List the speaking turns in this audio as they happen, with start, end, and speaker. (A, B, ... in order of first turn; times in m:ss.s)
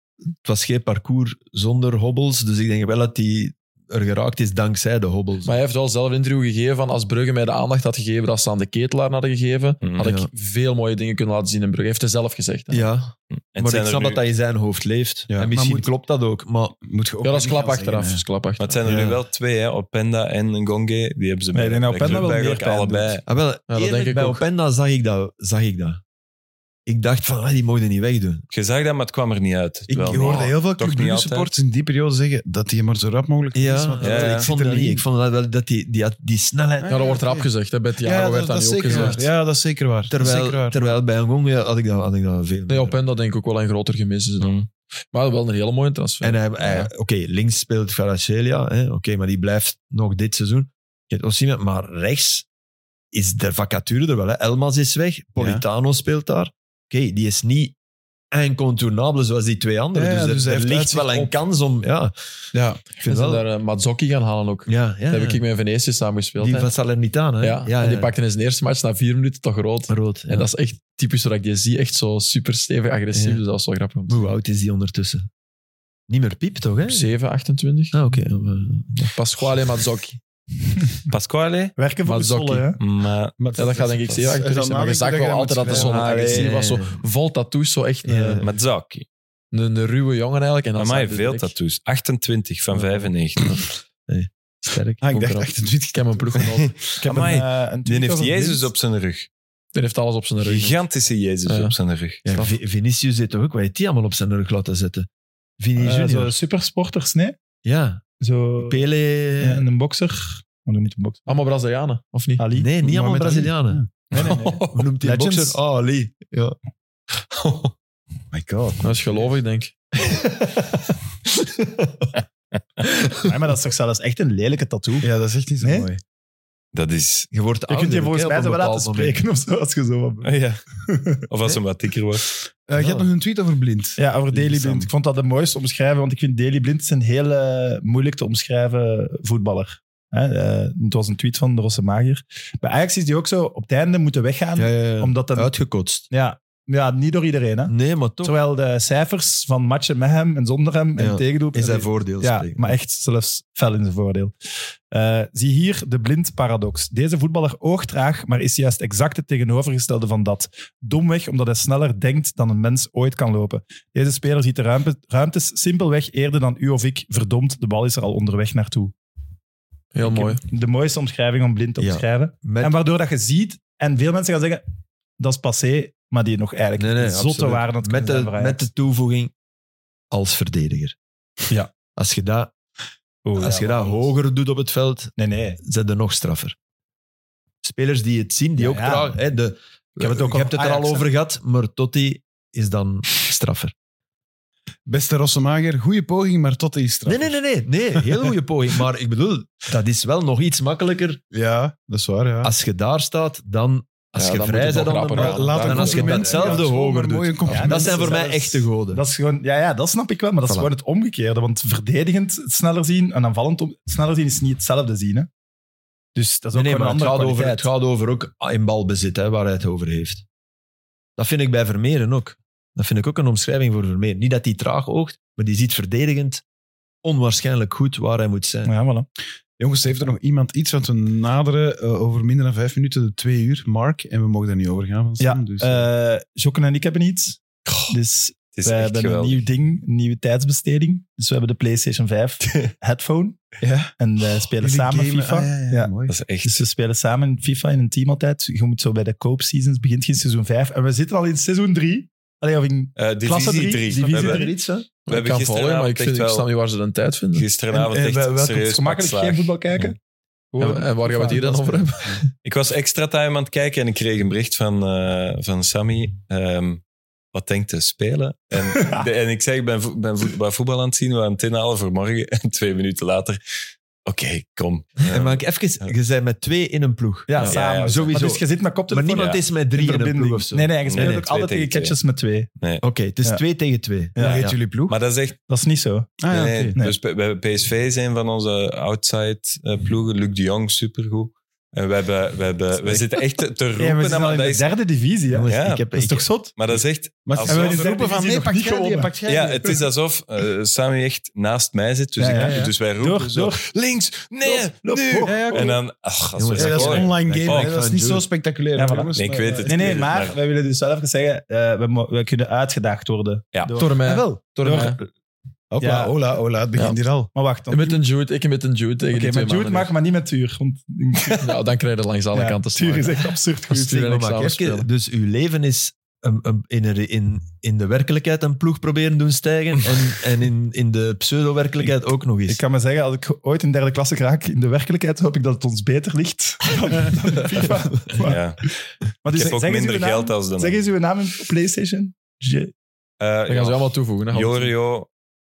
0:00.4-0:05.5 A
0:05.4-0:12.9 B
0:09.8-0:10.1 C
0:10.0-0:10.3 A
0:12.7-0:16.8 A
0:13.3-0:14.2 C
0:15.3-0:15.9 D
0:16.8-0:18.2 D
0:17.2-0:18.9 B
0:18.6-0:23.2 C
0:18.8-0:19.2 A
0:21.5-0:23.2 E
0:23.3-0:26.0 A
0:23.7-0:24.4 B
0:26.9-0:28.4 A
0:28.5-0:31.5 C
0:29.9-0:35.0 D
0:30.1-0:30.5 A
0:33.5-0:37.2 A
0:34.0-0:34.5 C
0:36.8-0:40.8 D
0:36.9-0:39.2 B
0:38.8-0:39.2 A
0:40.1-0:43.0 A
0:42.7-0:44.5 B
0:44.4-0:44.7 C
0:45.1-0:46.4 B
0:46.2-0:52.4 A
0:46.6-0:46.9 C
0:53.1-0:57.7 A
0:55.4-0:55.6 D
0:58.3-1:02.1 A
0:59.9-1:01.3 D
1:02.5-1:02.8 D
1:03.0-1:06.7 B
1:03.0-1:03.4 A
1:04.7-1:05.4 A
1:06.4-1:08.1 A
1:07.4-1:14.2 B
1:09.9-1:10.5 A
1:13.1-1:13.4 A
1:14.1-1:15.3 A
1:16.1-1:17.1 A
1:16.9-1:18.0 B
1:17.9-1:19.1 A
1:19.1-1:20.2 B
1:21.1-1:21.8 C
1:21.8-1:22.8 E
1:22.0-1:22.7 B
1:22.8-1:23.4 C
1:23.4-1:26.4 D
1:23.5-1:28.4 B
1:25.7-1:26.4 C
1:25.8-1:26.4 E
1:26.3-1:27.0 A
1:28.0-1:28.4 A
1:28.4-1:29.0 C
1:29.5-1:31.5 B
1:30.8-1:33.6 C
1:32.7-1:33.1 B
1:33.5-1:35.0 A
1:35.0-1:36.7 D
1:35.1-1:36.7 B
1:36.4-1:39.3 C
1:37.0-1:38.7 E
1:39.7-1:40.8 B
1:40.4-1:42.2 C
1:41.4-1:41.7 B
1:42.2-1:45.1 A
1:42.3-1:42.6 B
1:45.6-1:46.3 A
1:45.8-1:47.4 E
1:47.6-1:48.0 A
1:48.2-1:48.8 E
1:48.6-1:49.6 A
1:49.4-1:51.2 E
1:51.3-1:52.4 B
1:52.4-1:53.5 E
1:52.5-1:56.6 A
1:54.1-1:54.9 C
1:54.1-1:55.6 E
1:57.3-1:57.7 C
1:58.3-1:59.1 D
1:58.8-1:59.7 B
2:00.0-2:00.8 A
2:01.4-2:02.1 A
2:02.9-2:03.2 A
2:03.2-2:05.1 E
2:05.0-2:06.0 D
2:05.6-2:05.9 E
2:06.7-2:07.3 C
2:07.3-2:09.2 A
2:07.7-2:11.2 E
2:10.2-2:10.6 C
2:11.3-2:12.2 C
2:12.7-2:14.9 D
2:14.0-2:25.5 E
2:24.6-2:26.0 A
2:26.1-2:34.3 E
2:27.7-2:28.4 A
2:31.0-2:32.8 A
2:34.9-2:48.9 E
2:49.9-2:50.4 B
2:50.0-2:54.6 E
2:51.8-2:52.7 A
2:55.2-2:58.6 E
2:56.8-2:59.3 A
3:00.1-3:00.9 A
3:01.9-3:02.5 A
3:03.2-3:04.1 E
3:03.4-3:06.5 A
3:05.2-3:05.6 E
3:07.6-3:13.7 A
3:08.6-3:09.2 E
3:10.0-3:11.1 E
3:14.9-3:17.4 D
3:17.0-3:21.2 A
3:18.0-3:18.3 D
3:21.3-3:22.5 D
3:22.4-3:29.0 A
3:24.2-3:26.6 B
3:25.1-3:28.4 D
3:27.4-3:35.3 E
3:36.2-3:37.7 E
3:36.5-3:40.2 A
3:41.2-3:46.4 A
3:47.0-3:48.7 A
3:48.6-3:49.0 E
3:49.6-3:55.9 D
3:55.2-4:03.4 E
3:57.6-3:58.0 C
3:58.5-3:59.4 C
4:02.4-4:02.7 C
4:03.6-4:03.9 D
4:04.0-4:05.9 E
4:04.6-4:06.2 D
4:06.1-4:06.6 C
4:06.4-4:14.5 E
4:13.0-4:14.5 C
4:13.9-4:14.9 A
4:15.0-4:16.5 C
4:15.1-4:17.5 B
4:17.3-4:19.9 C
4:17.7-4:18.7 D
4:18.6-4:20.0 E
4:20.5-4:21.9 E
4:20.6-4:22.2 B
4:22.4-4:33.4 C
4:28.8-4:29.0 E
4:34.0-4:35.9 C
4:35.0-4:41.3 A
4:37.3-4:42.5 E
4:37.4-4:38.2 C
4:39.1-4:39.4 C
4:40.8-4:42.0 C
4:42.8-4:44.5 A
4:44.1-4:44.4 E
4:44.2-4:44.9 D
4:44.2-4:45.4 C
4:45.5-4:46.2 E
4:46.2-4:46.8 D
4:46.3-4:54.7 C
4:53.8-4:56.5 E
4:55.3-4:56.2 A
4:55.5-4:55.9 C
4:56.4-4:57.9 C
4:57.2-4:59.8 D
4:57.4-4:59.1 E
4:59.2-5:07.8 C
5:02.2-5:03.6 E
5:02.4-5:02.7 D
5:04.4-5:05.8 E
5:05.2-5:05.8 D
5:06.4-5:08.2 A
5:06.5-5:10.1 D
5:08.8-5:15.1 E
5:09.1-5:10.4 C
5:13.5-5:13.8 C
5:13.8-5:15.0 B
5:15.7-5:17.3 D
5:15.8-5:16.2 E
5:17.3-5:18.0 E
5:17.7-5:19.9 B
5:19.1-5:21.5 E
5:21.4-5:24.8 B
5:22.4-5:24.4 E
5:23.7-5:32.6 A
5:32.5-5:38.4 E
5:38.2-5:38.6 C
5:39.2-5:42.7 E
5:39.3-5:40.8 C
5:43.2-5:45.1 C
5:43.5-5:44.7 B